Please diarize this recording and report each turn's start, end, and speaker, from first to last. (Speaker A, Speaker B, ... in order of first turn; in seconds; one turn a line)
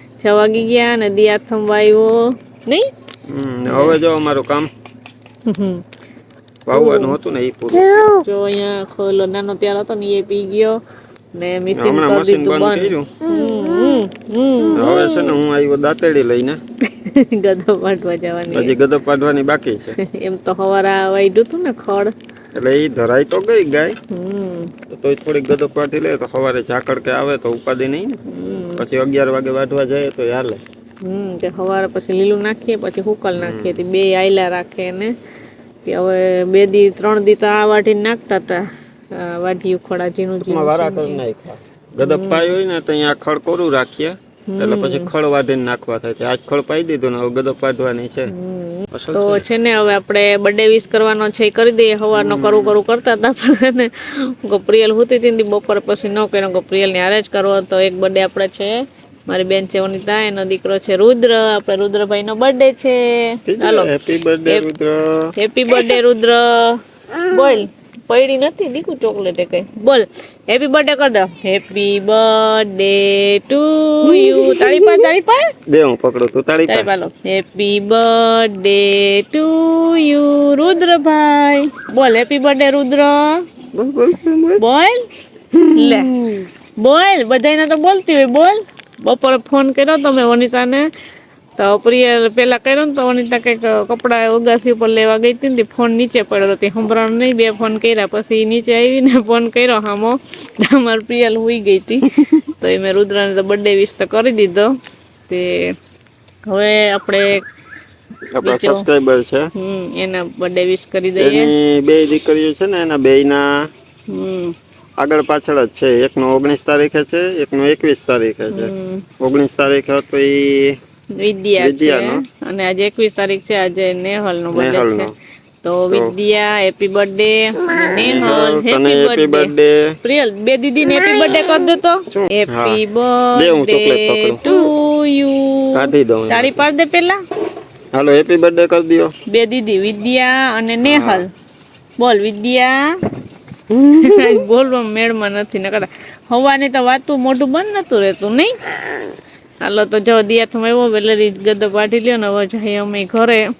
Speaker A: 0.2-2.9
Speaker B: 3.3-4.7
Speaker A: 3.7-4.0
Speaker A: 5.5-5.8
Speaker B: 6.7-8.1
Speaker A: 6.7-7.2
Speaker A: 8.1-10.8
Speaker A: 11.3-15.4
Speaker B: 11.7-13.1
Speaker B: 14.7-16.6
Speaker A: 16.9-18.8
Speaker B: 18.5-20.0
Speaker A: 19.9-22.1
Speaker B: 22.6-24.0
Speaker A: 24.1-24.7
Speaker B: 24.9-28.2
Speaker A: 28.3-28.8
Speaker B: 28.8-30.6
Speaker A: 31.0-35.1
Speaker B: 33.4-33.8
Speaker A: 35.9-41.2
Speaker B: 40.4-48.3
Speaker A: 42.0-42.5
Speaker A: 44.5-45.1
Speaker A: 48.3-58.8
Speaker B: 48.9-49.4
Speaker B: 52.1-52.8
Speaker A: 59.3-63.9
Speaker B: 63.5-65.0
Speaker A: 65.4-75.5
Speaker B: 74.1-75.1
Speaker B: 75.7-76.9
Speaker A: 76.7-83.4
Speaker B: 83.7-84.6
Speaker A: 84.6-85.0
Speaker B: 85.5-86.4
Speaker A: 85.8-86.1
Speaker A: 86.8-90.9
Speaker A: 91.6-104.7
Speaker A: 105.3-105.7
Speaker A: 106.5-107.4
Speaker B: 108.3-109.5
Speaker A: 108.4-108.8
Speaker A: 109.5-111.5
Speaker B: 111.2-113.5
Speaker A: 114.1-114.5
Speaker B: 115.0-120.8
Speaker A: 118.5-119.0
Speaker A: 121.1-125.1
Speaker B: 121.6-122.2
Speaker B: 124.5-125.1
Speaker A: 125.6-129.5
Speaker B: 127.9-129.9
Speaker A: 130.0-137.2
Speaker B: 132.1-132.8
Speaker B: 133.3-134.5
Speaker B: 135.7-136.6
Speaker B: 137.9-139.1
Speaker A: 139.3-141.3
Speaker B: 140.8-141.2
Speaker A: 142.0-142.8
Speaker B: 143.7-144.4
Speaker A: 144.0-148.5
Speaker A: 149.6-153.4